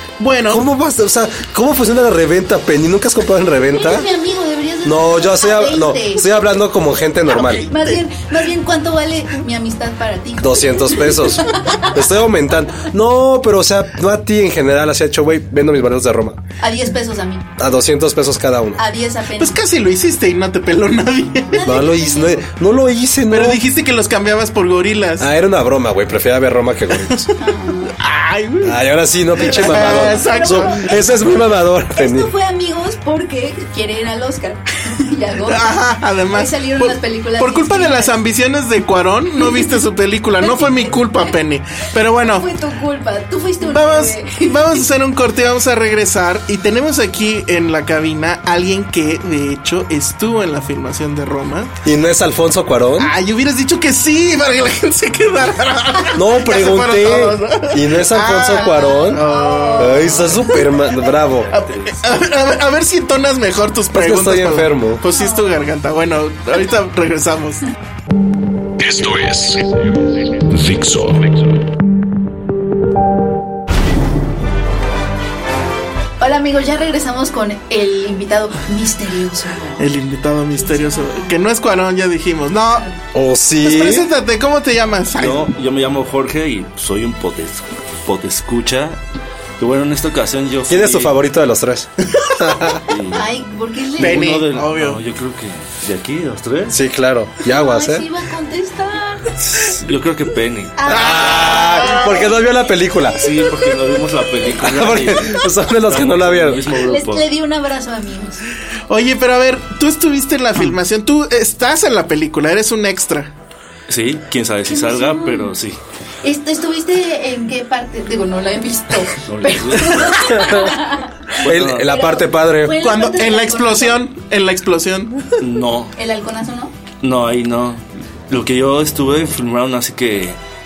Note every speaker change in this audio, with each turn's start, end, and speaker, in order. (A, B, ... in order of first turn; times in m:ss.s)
0:00.2-0:00.6 A
0:00.5-0:04.1 B
0:03.7-0:06.4 C
0:04.8-0:07.7 B
0:07.3-0:12.1 C
0:10.4-0:16.4 B
0:16.6-0:17.5 C
0:17.6-0:18.8 B
0:18.8-0:19.6 C
0:19.4-0:21.8 A
0:21.4-0:22.4 C
0:21.6-0:23.6 B
0:23.3-0:25.3 A
0:25.2-0:27.3 B
0:26.9-0:27.3 A
0:27.4-0:27.9 C
0:28.0-0:28.8 A
0:28.6-0:32.3 B
0:29.4-0:30.8 A
0:29.4-0:31.3 C
0:31.9-0:38.2 C
0:35.4-0:42.5 A
0:39.4-0:39.8 C
0:40.4-0:41.3 C
0:42.2-0:44.6 C
0:43.6-0:51.7 A
0:51.8-0:53.1 B
0:53.0-1:00.8 A
0:56.1-0:59.2 B
0:58.5-1:00.6 C
0:59.8-1:01.5 B
1:01.5-1:02.2 D
1:01.5-1:07.6 A
1:03.9-1:05.0 B
1:05.1-1:05.4 C
1:08.8-1:11.6 E
1:16.2-1:19.8 C
1:19.8-1:22.8 A
1:20.6-1:21.4 C
1:23.1-1:24.1 B
1:23.6-1:25.5 A
1:25.1-1:29.0 D
1:29.6-1:31.1 D
1:30.7-1:32.8 B
1:32.8-1:33.3 D
1:33.1-1:34.2 C
1:34.0-1:35.0 A
1:34.0-1:36.8 D
1:36.7-1:38.1 B
1:37.4-1:39.3 C
1:39.4-1:40.8 D
1:40.8-1:42.3 C
1:40.8-1:42.3 A
1:40.9-1:43.2 B
1:43.1-1:47.3 D
1:44.6-1:46.7 B
1:46.8-1:48.4 C
1:48.9-1:53.3 A
1:53.9-1:55.8 D
1:54.7-1:55.5 C
1:56.2-2:04.0 C
1:59.2-2:00.5 D
2:00.4-2:00.7 B
2:01.4-2:02.0 D
2:01.4-2:02.8 B
2:02.7-2:05.4 A
2:05.4-2:05.9 D
2:06.0-2:06.7 C
2:07.0-2:10.4 D